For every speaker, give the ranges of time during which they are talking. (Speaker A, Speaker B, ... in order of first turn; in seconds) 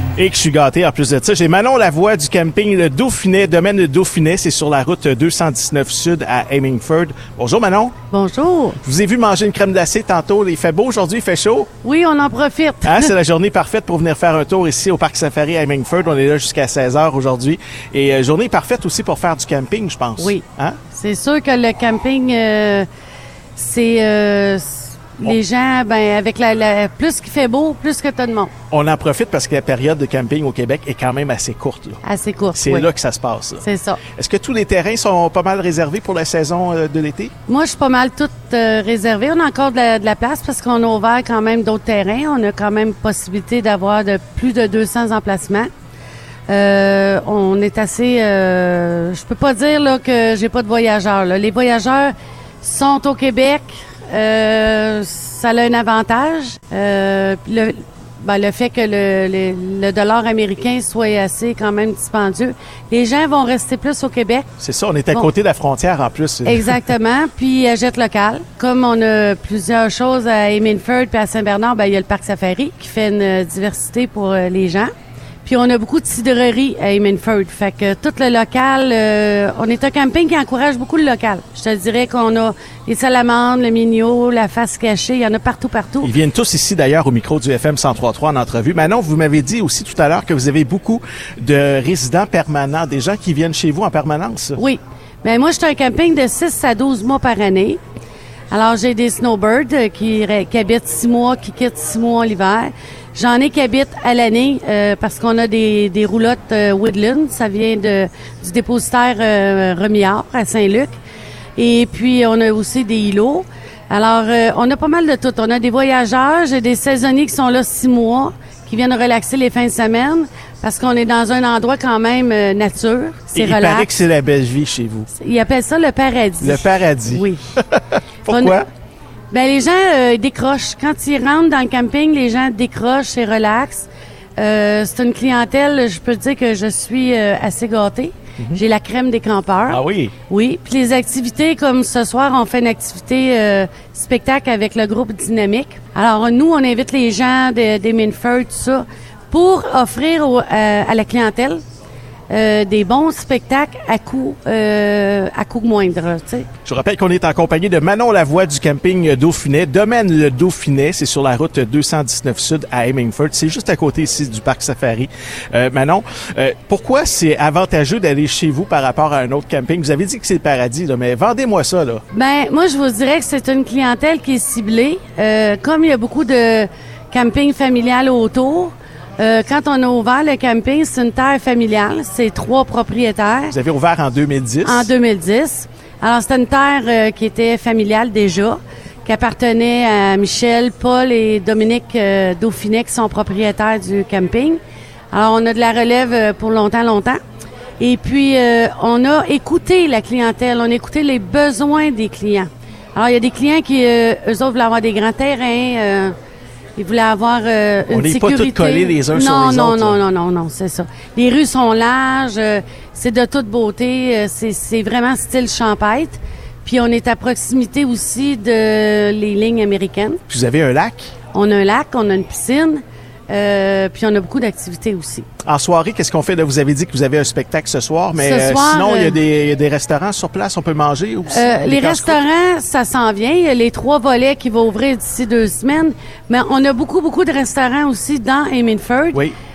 Speaker A: 0.2-7.9, 8.8-11.7, 12.8-20.8, 28.7-32.0, 32.5-33.6, 34.1-37.3, 64.6-66.8, 86.0-94.6, 123.3-125.1, 126.4-128.7, 139.7-140.1, 156.7-172.0, 183.5-184.9, 207.9-210.0, 220.3-221.1, 225.4-232.2
Speaker B: 8.1-8.8, 11.8-13.1, 20.2-22.9, 23.6-28.5, 32.0-32.9, 33.6-34.0, 37.5-45.7, 46.5-64.5, 66.5-74.9, 75.4-86.2, 94.6-97.8, 98.5-110.9, 111.6-123.9, 125.1-127.4, 128.3-128.6, 129.3-151.6, 152.3-156.5, 172.1-183.6, 184.6-194.6, 195.1-197.2, 197.8-206.1, 206.8-220.2, 221.3-225.3, 228.2-229.2, 231.3-239.2